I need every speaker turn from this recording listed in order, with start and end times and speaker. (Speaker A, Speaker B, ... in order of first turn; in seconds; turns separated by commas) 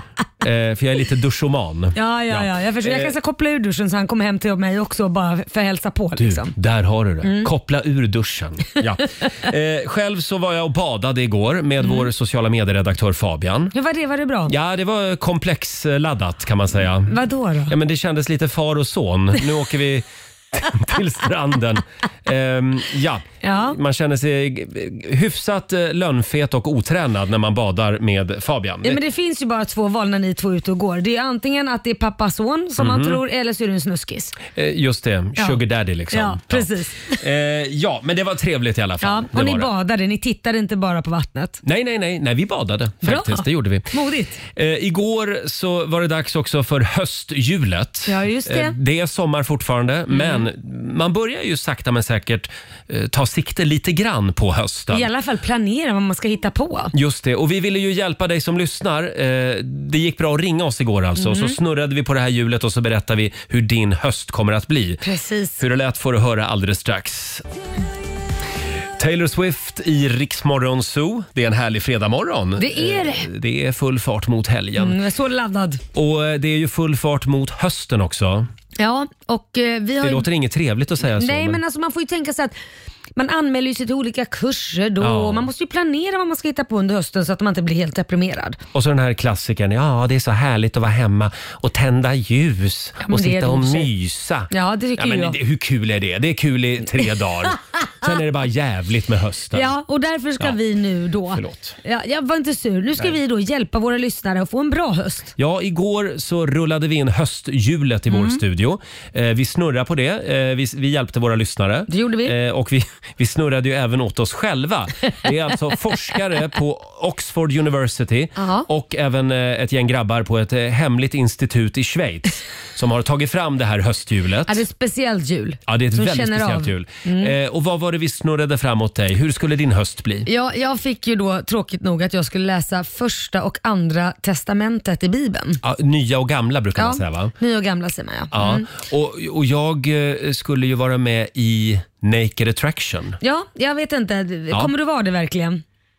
Speaker A: 0.4-3.1, Speaker B: 1.9-6.5, Speaker A: 6.2-13.7, Speaker B: 7.2-7.5, Speaker B: 11.8-12.1, Speaker B: 13.7-14.5, Speaker A: 14.5-17.2, Speaker B: 17.1-17.8, Speaker A: 17.7-29.0, Speaker B: 23.4-23.8, Speaker B: 28.8-34.4, Speaker A: 32.8-33.2, Speaker A: 34.5-39.7, Speaker B: 35.4-37.2, Speaker B: 39.0-41.6, Speaker A: 41.6-43.9, Speaker B: 43.0-44.4, Speaker A: 44.5-55.1, Speaker B: 48.1-48.8, Speaker B: 50.1-50.5, Speaker B: 54.9-56.9, Speaker A: 56.9-65.0, Speaker B: 61.2-61.6, Speaker B: 65.0-65.6, Speaker A: 65.6-67.4, Speaker A: 69.0-75.0, Speaker B: 72.6-73.3, Speaker B: 74.8-75.8, Speaker A: 75.9-78.5, Speaker B: 78.8-80.3, Speaker A: 80.0-81.6, Speaker B: 81.0-82.5, Speaker B: 83.2-88.6, Speaker A: 85.0-85.5, Speaker A: 88.7-99.7, Speaker B: 93.0-93.9, Speaker B: 94.5-95.4, Speaker B: 99.5-105.3, Speaker A: 101.3-101.8, Speaker A: 105.4-124.6, Speaker B: 108.1-108.4, Speaker B: 111.9-112.3, Speaker B: 118.4-118.7, Speaker B: 124.5-127.3, Speaker A: 125.7-130.3, Speaker B: 130.3-135.6, Speaker A: 135.6-137.3, Speaker B: 136.8-138.7, Speaker A: 138.3-143.2, Speaker B: 143.2-145.6